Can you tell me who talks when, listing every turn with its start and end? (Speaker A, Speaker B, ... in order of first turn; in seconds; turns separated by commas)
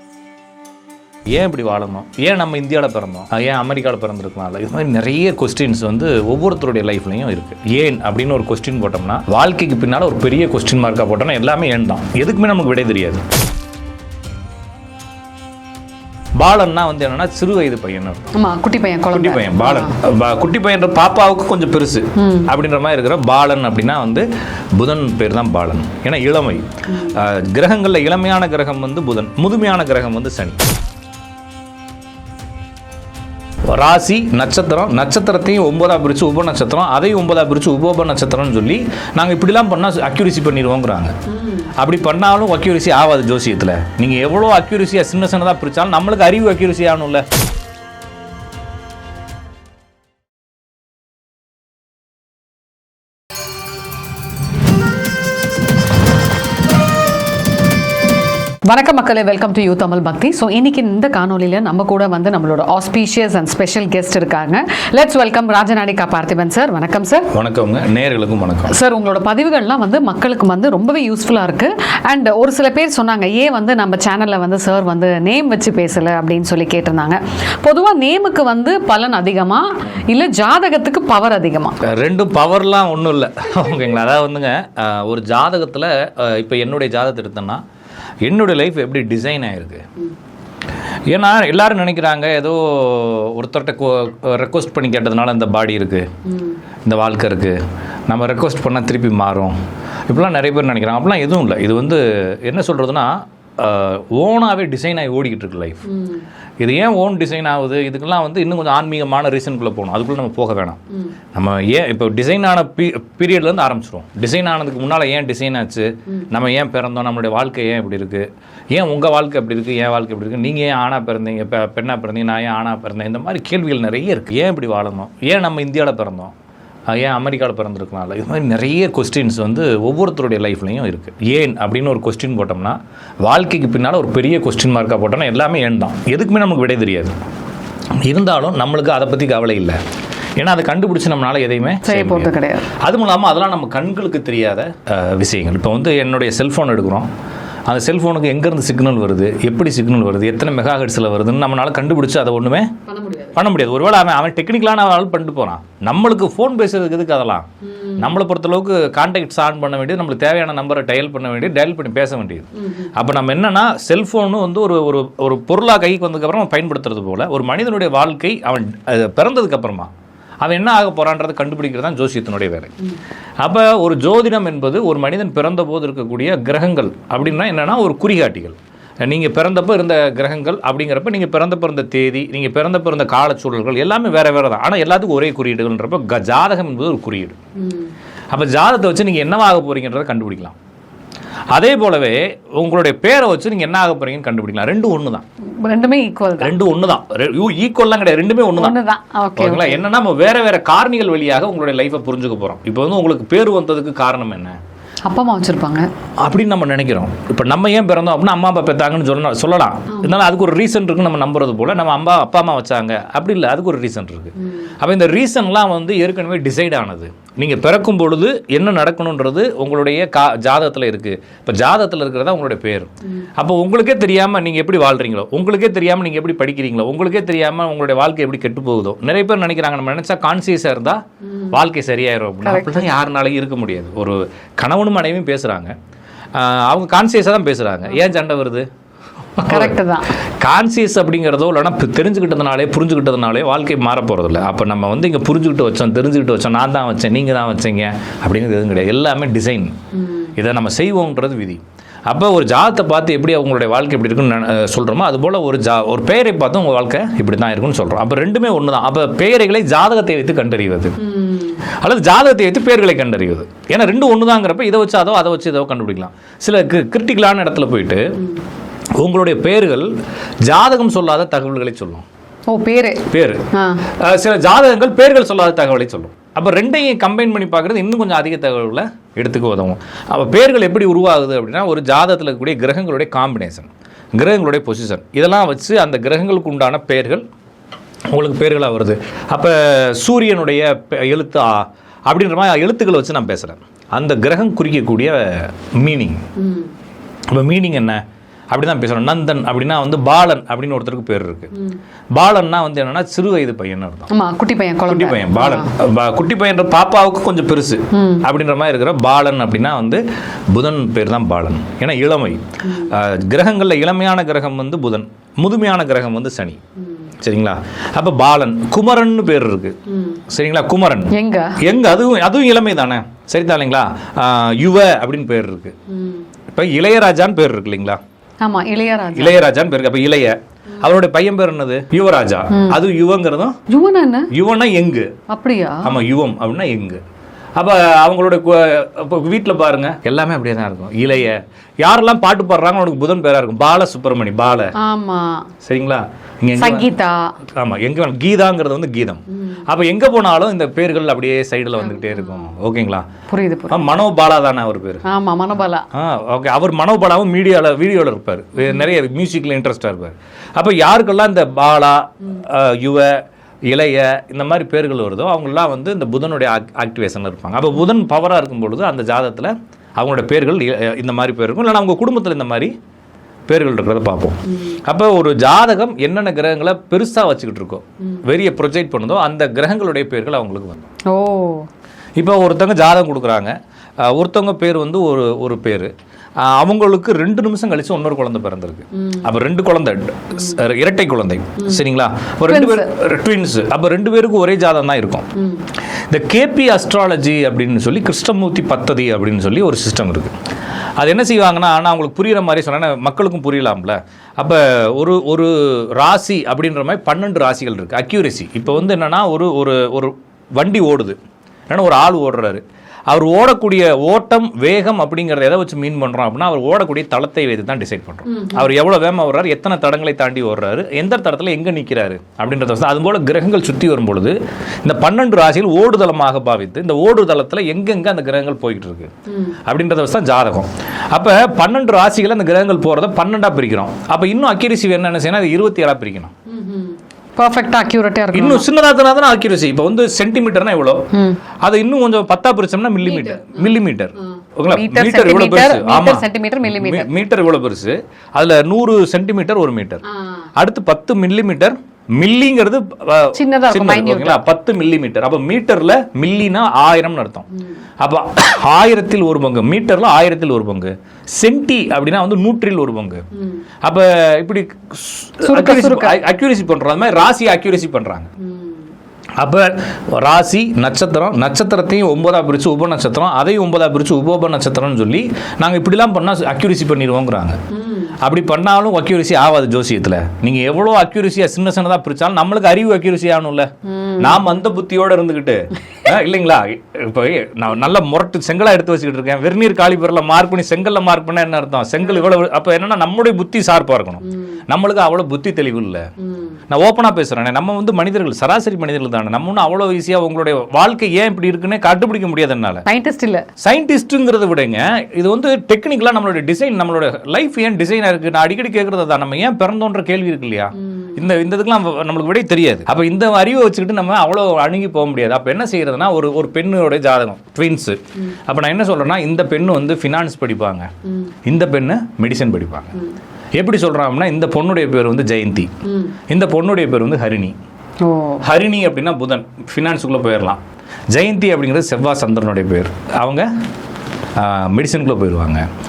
Speaker A: 1.3-13.2, Speaker A: 16.4-18.3, Speaker B: 18.3-19.9, Speaker A: 19.1-30.6, Speaker B: 22.2-22.5, Speaker A: 33.7-41.1, Speaker B: 41.3-41.7, Speaker A: 41.8-47.2, Speaker B: 58.7-67.3, Speaker A: 67.3-68.8, Speaker B: 68.7-81.8, Speaker A: 81.8-87.6, Speaker A: 88.2-89.8, Speaker A: 91.1-96.1, Speaker B: 96.3-96.5, Speaker A: 96.8-97.6, Speaker A: 98.1-99.6, Speaker A: 100.1-105.8, Speaker B: 105.9-106.2, Speaker A: 106.6-110.8, Speaker A: 111.3-126.3, Speaker A: 126.9-137.2, Speaker A: 138.0-139.8, Speaker A: 140.4-147.1, Speaker B: 141.8-142.7, Speaker A: 147.7-152.7, Speaker B: 152.9-153.4, Speaker A: 153.3-157.5, Speaker B: 157.7-158.1, Speaker A: 158.0-169.9, Speaker B: 162.6-162.9, Speaker A: 170.4-172.7, Speaker A: 173.4-187.4, Speaker B: 187.6-187.9, Speaker A: 188.3-190.6, Speaker A: 191.5-195.2, Speaker B: 195.6-196.5, Speaker A: 196.4-198.8, Speaker B: 198.6-199.8, Speaker A: 199.4-204.6, Speaker B: 205.1-205.9, Speaker A: 206.2-235.7, Speaker B: 232.4-232.9, Speaker A: 236.3-238.7, Speaker A: 239.4-239.8, Speaker B: 239.5-240.1, Speaker A: 240.4-249.8, Speaker A: 250.4-261.0, Speaker B: 261.0-261.6, Speaker A: 261.7-268.2, Speaker A: 269.0-269.9, Speaker A: 270.4-272.0, Speaker B: 272.5-273.9, Speaker A: 273.1-287.2, Speaker A: 288.1-296.2, Speaker B: 296.4-296.7, Speaker A: 297.3-301.5, Speaker A: 302.1-304.1, Speaker B: 304.1-305.7, Speaker A: 304.9-316.6, Speaker B: 307.9-308.2, Speaker B: 312.6-312.9, Speaker A: 317.2-319.8, Speaker B: 319.9-320.2, Speaker A: 320.3-325.7, Speaker B: 321.1-321.6, Speaker B: 325.9-326.2, Speaker A: 326.5-328.0, Speaker B: 328.4-329.4, Speaker A: 329.1-333.6, Speaker B: 332.5-332.8, Speaker B: 333.7-334.3, Speaker A: 334.3-335.1, Speaker B: 335.3-335.9, Speaker A: 335.8-337.0, Speaker A: 337.6-344.7, Speaker B: 344.8-345.5, Speaker A: 345.6-346.9, Speaker B: 346.6-347.3, Speaker A: 347.6-353.1, Speaker B: 351.9-352.4, Speaker B: 353.3-353.9, Speaker A: 353.7-355.0, Speaker B: 355.1-355.9, Speaker A: 355.9-372.7, Speaker A: 373.5-380.9, Speaker B: 374.5-374.8, Speaker B: 381.1-381.7, Speaker A: 382.2-395.3, Speaker B: 388.9-389.3, Speaker B: 392.5-392.9, Speaker B: 395.4-395.6, Speaker A: 396.1-400.3, Speaker A: 401.0-411.2, Speaker A: 411.7-429.1, Speaker B: 418.3-418.7, Speaker B: 429.3-429.6, Speaker A: 429.7-436.3, Speaker B: 436.5-438.7, Speaker A: 438.3-441.1, Speaker B: 441.1-441.4, Speaker A: 441.6-450.0, Speaker B: 443.0-443.7, Speaker B: 444.7-447.1, Speaker B: 450.1-450.5, Speaker A: 450.6-457.5, Speaker B: 453.3-454.4, Speaker A: 458.0-463.2, Speaker B: 463.4-463.6, Speaker A: 463.8-468.3, Speaker B: 465.4-466.2, Speaker B: 468.4-468.8, Speaker A: 469.4-477.6, Speaker B: 477.7-478.1, Speaker A: 478.2-496.1, Speaker B: 483.9-484.4, Speaker A: 496.7-502.9, Speaker B: 502.9-503.5, Speaker A: 503.6-520.9, Speaker B: 510.8-511.1, Speaker B: 521.1-521.3, Speaker A: 521.5-523.0, Speaker A: 523.6-525.7, Speaker B: 525.9-526.2, Speaker A: 526.3-527.5, Speaker B: 528.0-528.4, Speaker A: 528.4-530.6, Speaker A: 531.1-533.5, Speaker A: 534.4-535.7